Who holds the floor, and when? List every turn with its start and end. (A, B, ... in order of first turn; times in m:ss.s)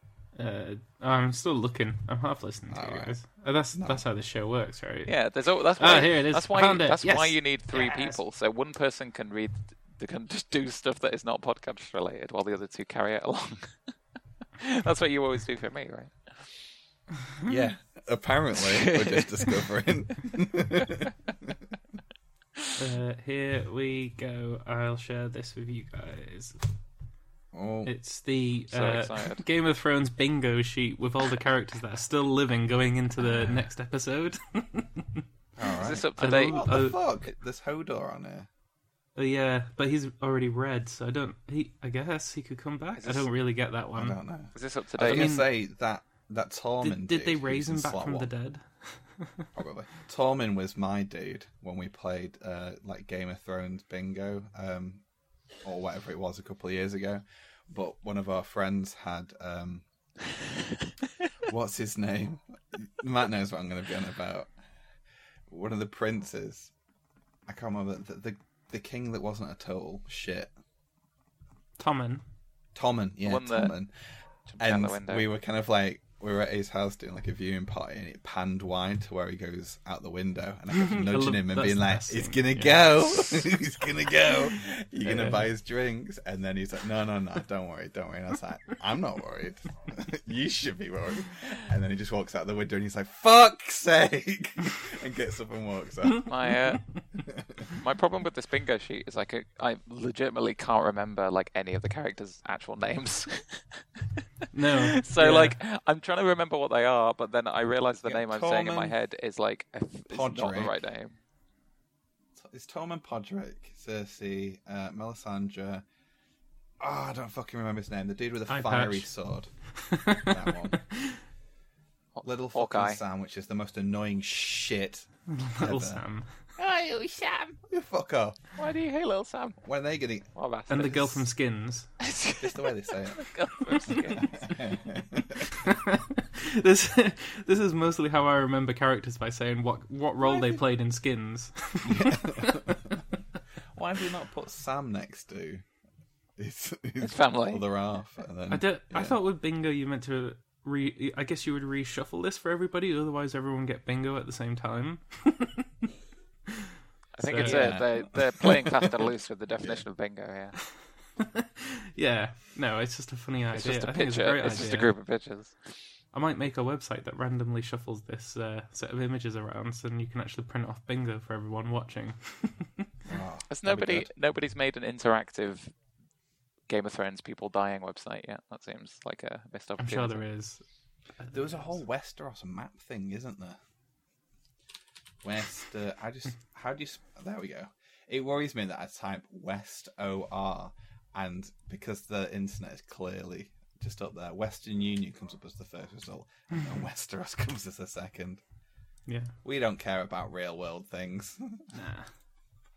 0:00.4-0:05.2 A
0:02.7-0:03.2 B
0:03.8-0:04.0 B
0:05.1-0:13.9 C
0:05.8-0:08.2 A
0:14.6-0:16.5 C
0:17.5-0:21.6 B
0:18.6-0:19.6 C
0:22.8-0:26.6 A
0:27.5-0:27.9 B
0:27.8-0:35.2 A
0:28.7-0:29.4 C
0:35.6-0:38.5 B
0:35.8-0:36.6 C
0:36.2-0:37.0 A
0:39.2-0:44.2 A
0:43.0-0:43.3 C
0:44.0-0:48.3 B
0:44.6-0:45.4 C
0:45.1-0:45.5 A
0:46.8-0:49.5 A
0:49.5-0:55.0 B
0:55.6-0:59.8 B
1:01.4-1:04.5 B
1:05.5-1:06.7 B
1:07.5-1:10.5 B
1:11.8-1:12.2 A
1:12.8-1:13.9 B
1:13.2-1:13.8 C
1:14.5-1:15.3 C
1:14.6-1:36.3 B
1:20.7-1:22.9 A
1:25.0-1:25.5 A
1:36.2-1:36.9 C
1:37.2-1:37.6 B
1:37.8-1:43.8 C
1:44.5-1:45.6 A
1:44.6-1:51.2 C
1:48.0-1:49.0 B
1:50.1-1:50.8 B
1:52.4-1:55.8 B
1:56.8-1:59.5 B
1:58.5-1:59.1 A
1:59.8-2:01.2 A
2:00.2-2:00.8 B
2:02.2-2:03.0 C
2:02.2-2:05.1 B
2:05.3-2:06.3 A
2:05.6-2:06.0 B
2:06.6-2:07.6 C
2:07.7-2:08.4 B
2:08.6-2:09.6 C
2:09.6-2:10.3 B
2:10.4-2:11.2 C
2:10.7-2:11.9 A
2:12.0-2:14.6 C
2:12.4-2:13.3 B
2:13.9-2:15.5 B
2:15.4-2:22.8 A
2:21.8-2:23.0 B
2:23.8-2:25.6 B
2:26.4-2:29.2 B
2:27.0-2:27.6 C
2:28.5-2:35.9 A
2:37.2-2:40.6 C
2:37.2-2:38.0 A
2:37.3-2:39.1 B
2:41.2-2:44.9 A
2:43.5-2:45.6 C
2:46.1-2:52.9 A
2:53.1-2:54.1 B
2:53.5-2:55.7 C
2:56.7-3:00.2 C
2:59.8-3:00.6 A
3:01.2-3:01.6 A
3:01.3-3:03.6 B
3:05.2-3:18.4 B
3:19.1-3:19.3 A
3:19.4-3:21.7 B
3:21.7-3:22.1 A